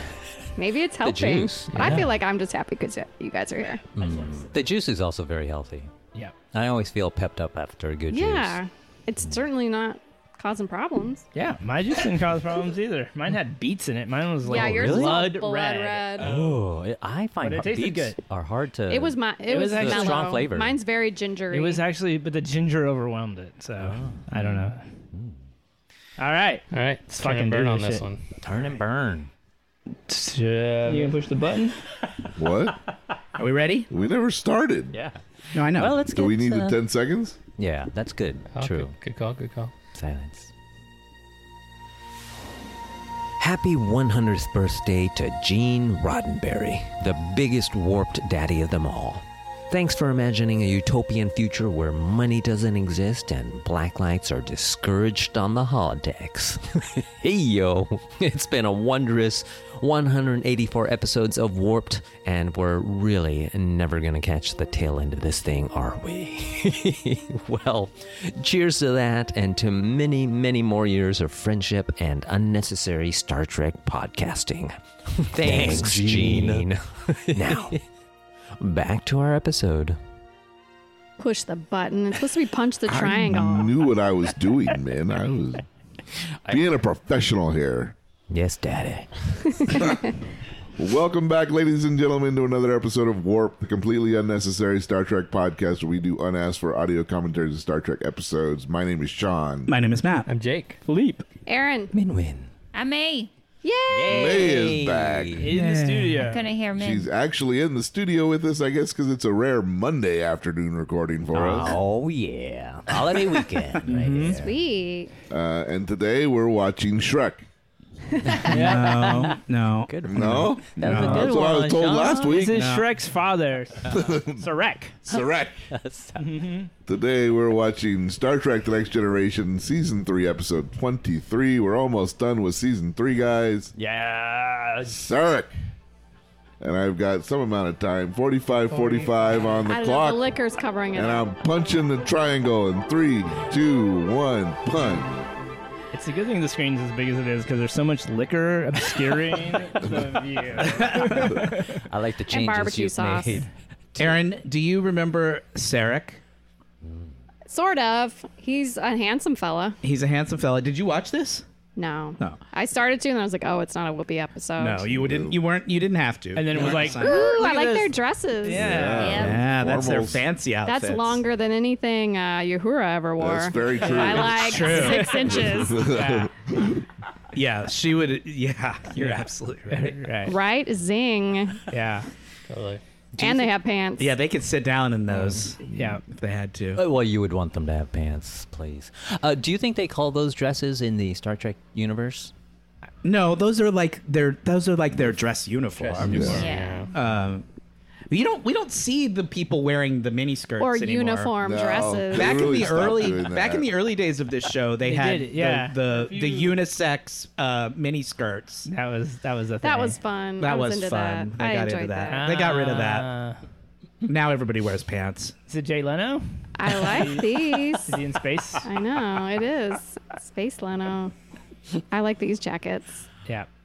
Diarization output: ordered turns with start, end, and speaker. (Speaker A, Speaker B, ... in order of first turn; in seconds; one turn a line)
Speaker A: 0.6-3.8
Speaker B: 1.0-2.1
Speaker C: 1.7-2.0
Speaker B: 3.9-8.6
Speaker D: 4.1-4.3
Speaker A: 8.1-11.2
Speaker D: 11.3-16.3
Speaker B: 14.4-15.3
Speaker A: 14.4-16.3
Speaker B: 16.2-20.8
Speaker E: 16.2-16.6
Speaker D: 17.4-18.2
Speaker A: 18.9-21.8
Speaker D: 19.5-20.4
Speaker D: 21.5-24.8
Speaker B: 23.8-25.3
Speaker D: 26.2-26.6
Speaker C: 26.7-28.2
Speaker D: 27.2-28.1
Speaker B: 28.4-29.3
Speaker D: 30.1-31.8
Speaker F: 32.4-32.8
Speaker E: 33.4-33.9
Speaker F: 33.9-34.9
Speaker B: 34.9-36.8
Speaker E: 35.5-36.1
Speaker F: 36.1-37.4
Speaker B: 37.6-39.0
Speaker C: 38.5-39.7
Speaker B: 39.9-40.5
Speaker B: 43.4-77.8
Speaker B: 78.6-80.0
Speaker A: 81.2-83.7
Speaker F: 82.9-85.6
Speaker F: 86.5-87.9
Speaker B: 88.3-89.6
Speaker A: 89.7-90.0
Speaker F: 90.8-99.7
Speaker E: 99.7-100.3
Speaker C: 100.2-100.8
Speaker D: 100.8-101.2
Speaker A: 101.5-101.9
Speaker B: 101.9-102.5
Speaker G: 102.7-103.3
Speaker A: 103.6-104.6
Speaker B: 103.9-105.6
Speaker F: 104.1-105.5
Speaker D: 105.4-106.5
Speaker E: 105.5-106.3
Speaker G: 106.2-107.1
Speaker F: 106.7-111.8
Speaker B: 111.3-114.6
Speaker E: 113.0-114.3
Speaker D: 113.9-114.4
Speaker A: 114.3-115.1
Speaker F: 115.3-117.5
Speaker B: 118.3-122.6
Speaker D: 118.4-119.0
Speaker E: 118.5-121.3
Speaker F: 120.1-122.7
Speaker D: 120.8-121.2
Speaker D: 122.2-125.0
Speaker E: 122.5-122.9
Speaker F: 123.9-124.4
Speaker F: 125.0-125.6
Speaker B: 125.1-126.4
Speaker D: 126.2-126.7
Speaker F: 126.8-133.7
Speaker D: 133.8-135.0
Speaker F: 134.8-135.5
Speaker F: 136.6-140.2
Speaker D: 138.7-139.1
Speaker A: 139.7-141.3
Speaker F: 140.9-145.1
Speaker D: 145.9-151.8
Speaker E: 150.7-151.3
Speaker B: 151.4-154.1
Speaker A: 152.3-153.4
Speaker E: 154.0-156.2
Speaker A: 157.5-159.8
Speaker E: 159.8-161.4
Speaker A: 161.8-164.9
Speaker E: 164.6-167.4
Speaker F: 164.9-165.4
Speaker D: 166.3-169.2
Speaker A: 166.9-168.7
Speaker F: 168.5-170.2
Speaker G: 168.9-169.4
Speaker E: 169.1-171.2
Speaker A: 170.6-176.0
Speaker F: 173.2-174.5
Speaker D: 173.8-176.3
Speaker E: 174.2-175.3
Speaker F: 175.3-176.8
Speaker E: 177.3-180.0
Speaker D: 179.0-180.3
Speaker A: 180.2-181.6
Speaker D: 181.7-182.1
Speaker C: 182.5-182.8
Speaker A: 183.2-184.1
Speaker E: 184.0-186.8
Speaker B: 185.1-185.6
Speaker D: 185.7-186.0
Speaker B: 186.8-192.3
Speaker E: 193.0-197.4
Speaker C: 195.8-196.9
Speaker F: 196.0-196.4
Speaker G: 196.3-196.9
Speaker E: 198.1-201.3
Speaker A: 200.6-203.0
Speaker F: 201.4-203.7
Speaker E: 202.1-208.7
Speaker D: 204.8-206.6
Speaker D: 208.7-210.0
Speaker A: 209.6-212.3
Speaker E: 210.4-213.1
Speaker D: 212.1-213.4
Speaker E: 214.0-215.3
Speaker D: 215.5-218.7
Speaker A: 216.6-218.0
Speaker A: 218.6-221.1
Speaker A: 221.9-223.0